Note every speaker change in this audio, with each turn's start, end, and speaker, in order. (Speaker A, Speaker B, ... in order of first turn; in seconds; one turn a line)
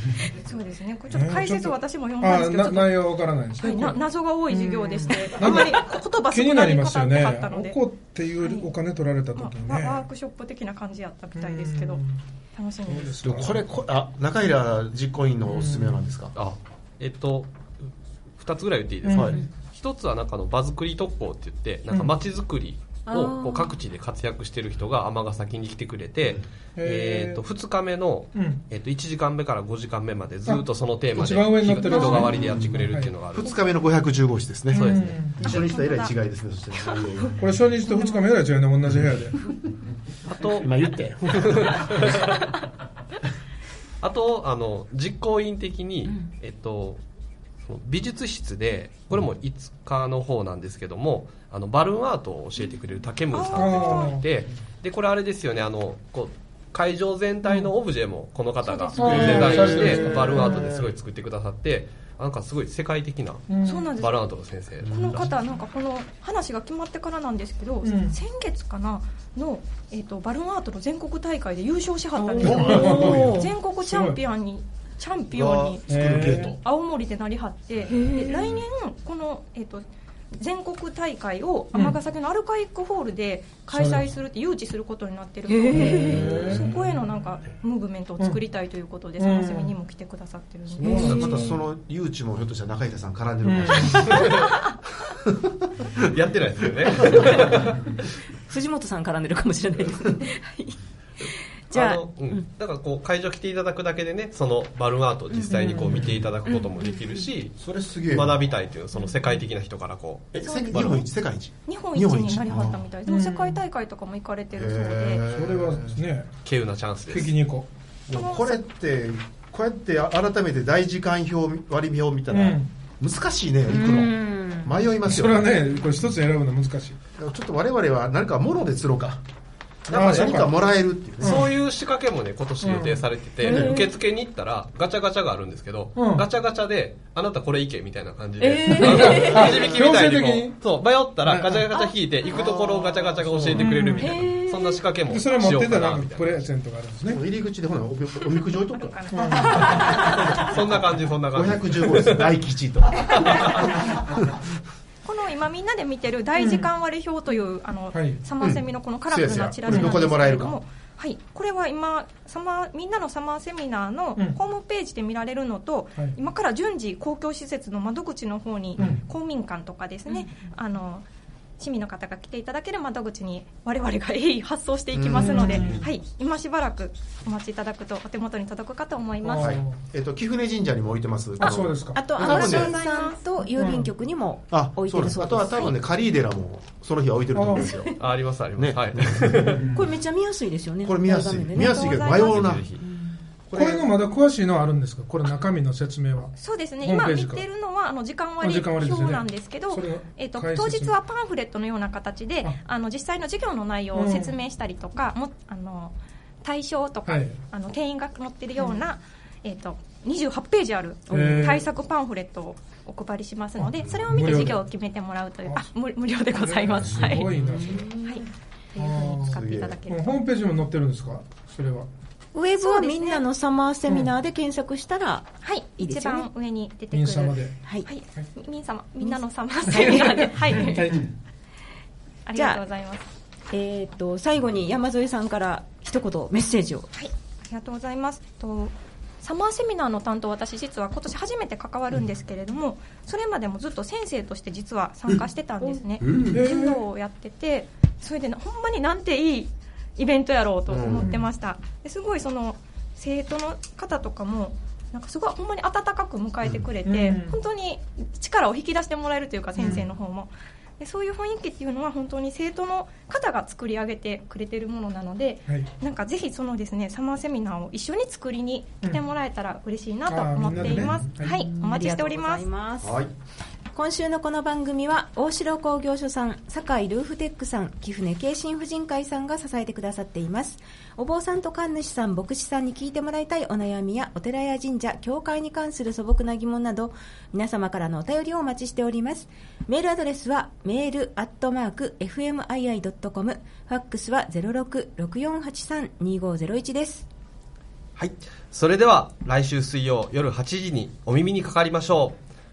Speaker A: 0.3-7.8
Speaker B: 1.1-10.1
Speaker A: 8.4-8.7
Speaker A: 9.3-12.0
Speaker B: 11.4-12.2
Speaker A: 12.6-13.3
Speaker B: 12.8-13.7
Speaker C: 13.2-16.3
Speaker B: 15.5-16.1
Speaker D: 16.3-17.5
Speaker D: 18.4-33.5
Speaker B: 19.0-19.4
Speaker E: 23.1-23.8
Speaker B: 26.8-27.4
Speaker B: 28.3-28.6
Speaker B: 30.4-33.1
Speaker A: 31.8-32.3
Speaker C: 32.5-37.4
Speaker A: 33.4-33.7
Speaker B: 34.7-35.4
Speaker D: 34.7-35.3
Speaker A: 35.4-36.1
Speaker B: 37.4-39.4
Speaker A: 37.8-38.3
Speaker D: 40.2-42.5
Speaker C: 40.6-42.2
Speaker D: 44.0-47.0
Speaker D: 47.6-65.3
Speaker A: 53.3-54.2
Speaker B: 53.5-54.2
Speaker A: 58.6-59.5
Speaker B: 59.0-60.7
Speaker C: 59.0-60.9
Speaker B: 63.5-63.9
Speaker A: 63.6-64.2
Speaker C: 64.8-65.2
Speaker A: 64.8-91.3
Speaker B: 67.8-68.2
Speaker B: 72.2-74.2
Speaker E: 72.4-73.5
Speaker C: 72.4-73.4
Speaker C: 75.3-76.6
Speaker B: 75.9-76.5
Speaker E: 77.9-78.5
Speaker B: 83.7-84.1
Speaker E: 85.5-86.4
Speaker B: 85.7-86.8
Speaker C: 86.2-86.7
Speaker B: 89.2-89.7
Speaker B: 90.8-91.6
Speaker E: 90.8-91.2
Speaker C: 90.9-94.4
Speaker B: 93.4-94.1
Speaker D: 93.9-94.5
Speaker C: 95.2-95.5
Speaker D: 95.9-98.0
Speaker E: 98.5-100.8
Speaker E: 101.7-102.5
Speaker D: 101.7-111.0
Speaker E: 105.3-107.3
Speaker B: 105.6-106.2
Speaker C: 107.6-108.5
Speaker C: 110.3-112.8
Speaker A: 110.4-111.0
Speaker A: 111.7-115.2
Speaker B: 113.0-113.6
Speaker C: 114.5-116.0
Speaker B: 115.3-116.3
Speaker D: 116.4-117.3
Speaker B: 117.1-117.7
Speaker A: 118.1-118.6
Speaker C: 118.1-125.6
Speaker B: 122.3-122.7
Speaker E: 123.7-124.7
Speaker B: 125.0-127.0
Speaker C: 127.2-129.2
Speaker C: 129.8-131.4
Speaker B: 129.9-130.6
Speaker B: 131.2-131.5
Speaker D: 131.2-146.4
Speaker B: 132.6-133.1
Speaker E: 133.4-133.9
Speaker C: 133.4-133.8
Speaker B: 135.9-136.2
Speaker E: 138.4-139.7
Speaker B: 138.7-140.6
Speaker B: 141.2-141.7
Speaker C: 142.3-143.7
Speaker E: 143.6-144.8
Speaker A: 143.7-144.1
Speaker B: 145.1-147.2
Speaker C: 147.1-149.1
Speaker A: 148.4-150.3
Speaker B: 149.1-149.5
Speaker D: 150.3-152.4
Speaker C: 151.3-154.4
Speaker A: 155.0-171.1
Speaker B: 156.4-156.7
Speaker B: 157.9-158.2
Speaker C: 158.4-160.6
Speaker A: 171.6-179.6
Speaker C: 174.9-175.8
Speaker B: 175.2-175.9
Speaker B: 179.2-179.8
Speaker C: 179.4-182.7
Speaker B: 181.4-182.1
Speaker E: 181.9-185.7
Speaker A: 182.1-183.2
Speaker B: 183.5-183.9
Speaker C: 184.5-187.9
Speaker B: 187.3-187.7
Speaker D: 188.0-189.7
Speaker C: 188.6-189.6
Speaker B: 189.5-189.8
Speaker E: 189.7-192.0
Speaker C: 190.8-192.6
Speaker A: 191.5-192.6
Speaker D: 192.1-192.8
Speaker E: 192.8-193.1
Speaker C: 193.5-193.9
Speaker B: 193.5-197.4
Speaker A: 196.4-220.2
Speaker B: 198.4-200.9
Speaker B: 203.9-204.3
Speaker B: 207.1-207.4
Speaker E: 211.1-211.5
Speaker B: 211.1-211.7
Speaker B: 213.6-214.6
Speaker B: 216.3-217.9
Speaker E: 217.3-218.2
Speaker B: 218.8-221.9
Speaker C: 219.3-219.8
Speaker E: 222.3-226.3
Speaker A: 222.6-223.2
Speaker A: 225.4-231.0
Speaker B: 226.9-227.5
Speaker E: 229.0-230.9
Speaker B: 230.5-231.1
Speaker A: 232.2-233.1
Speaker E: 232.3-232.6
Speaker E: 233.5-236.9
Speaker A: 236.9-272.4
Speaker C: 246.0-246.4
Speaker B: 246.3-246.8
Speaker C: 250.7-251.1
Speaker B: 256.8-257.4
Speaker C: 259.6-259.9
Speaker B: 259.6-259.9
Speaker B: 270.1-271.4
Speaker E: 271.2-273.0
Speaker C: 272.8-273.1
Speaker E: 273.7-297.1
Speaker D: 298.0-302.2